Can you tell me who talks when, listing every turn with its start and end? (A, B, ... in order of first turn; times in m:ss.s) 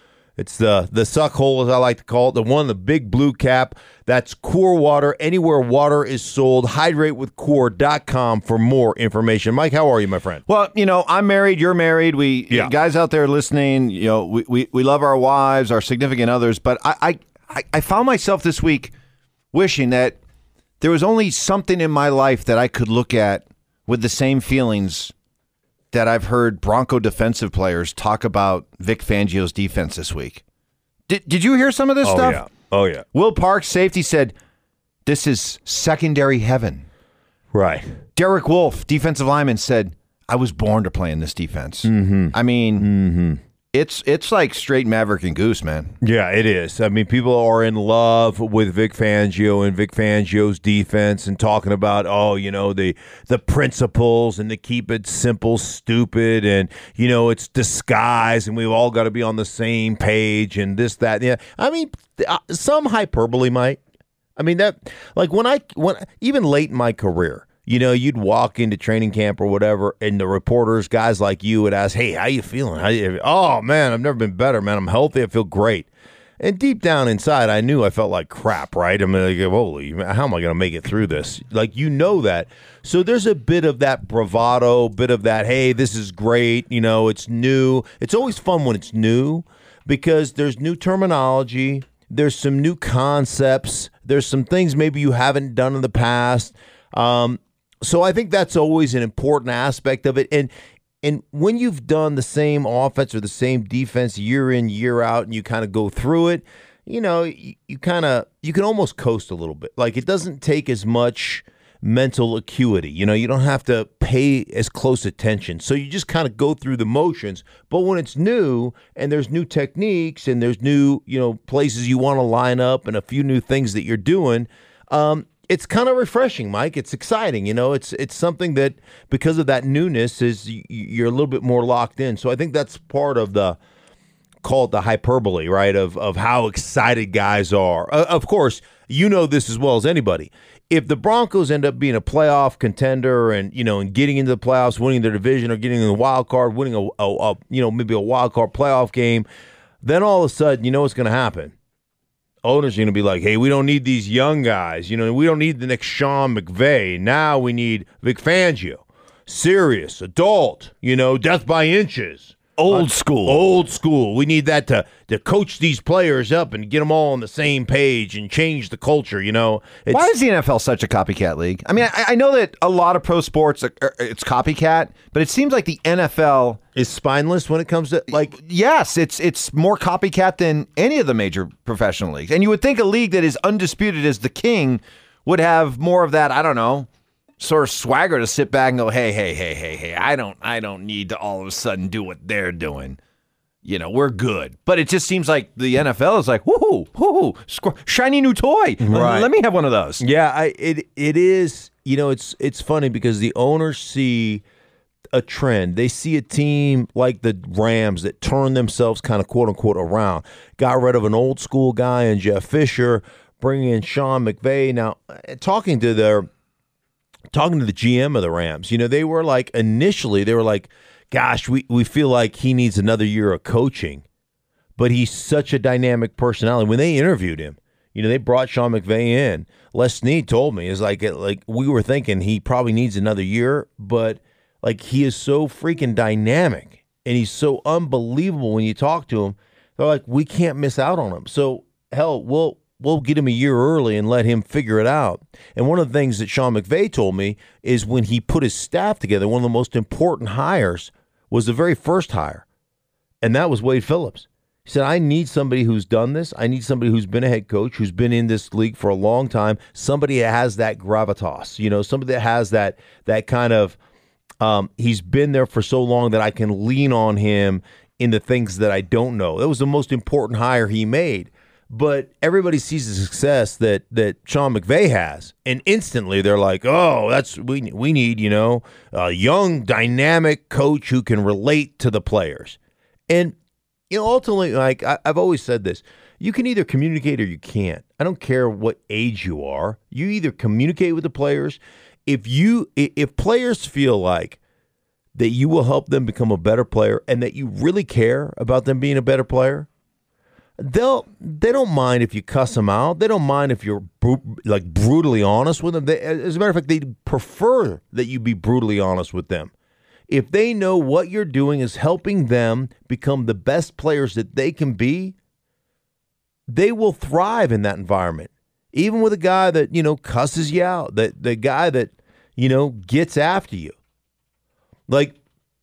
0:00.4-0:10.4 A
0:10.5-0:18.9 B
0:19.5-0:20.2 B
0:20.8-0:25.1 B
0:25.9-0:30.4 B
0:31.1-0:32.4 B
0:32.0-0:33.0 A
0:33.1-0:34.3 B
0:35.0-0:36.8 B
0:37.5-0:38.0 A
0:38.2-0:42.9 B
0:41.8-0:43.4 A
0:43.7-0:46.0 B
0:46.0-1:03.8 A
1:04.4-1:15.9 A
1:16.4-1:40.5 A
1:41.0-2:13.6 A
2:14.4-2:29.2 A
2:29.8-2:31.5 A
2:32.4-2:50.1 A
2:42.6-2:43.4 B
2:49.9-2:56.6 B
2:56.7-2:58.4 A
2:58.2-3:06.9 B
3:07.4-3:13.0 B
3:13.6-3:20.0 B
3:18.8-3:19.3 A
3:20.0-3:24.4 A
3:25.1-3:36.3 A
3:37.3-3:44.0 A
3:44.8-4:12.4 A
4:13.2-4:23.8 A
4:24.4-4:42.6 A
4:43.1-4:43.3 A
4:43.9-4:54.4 A
4:55.1-4:59.7 A
5:00.6-5:09.5 A
5:10.1-5:15.1 A
5:16.5-5:23.8 A
5:24.9-5:25.2 A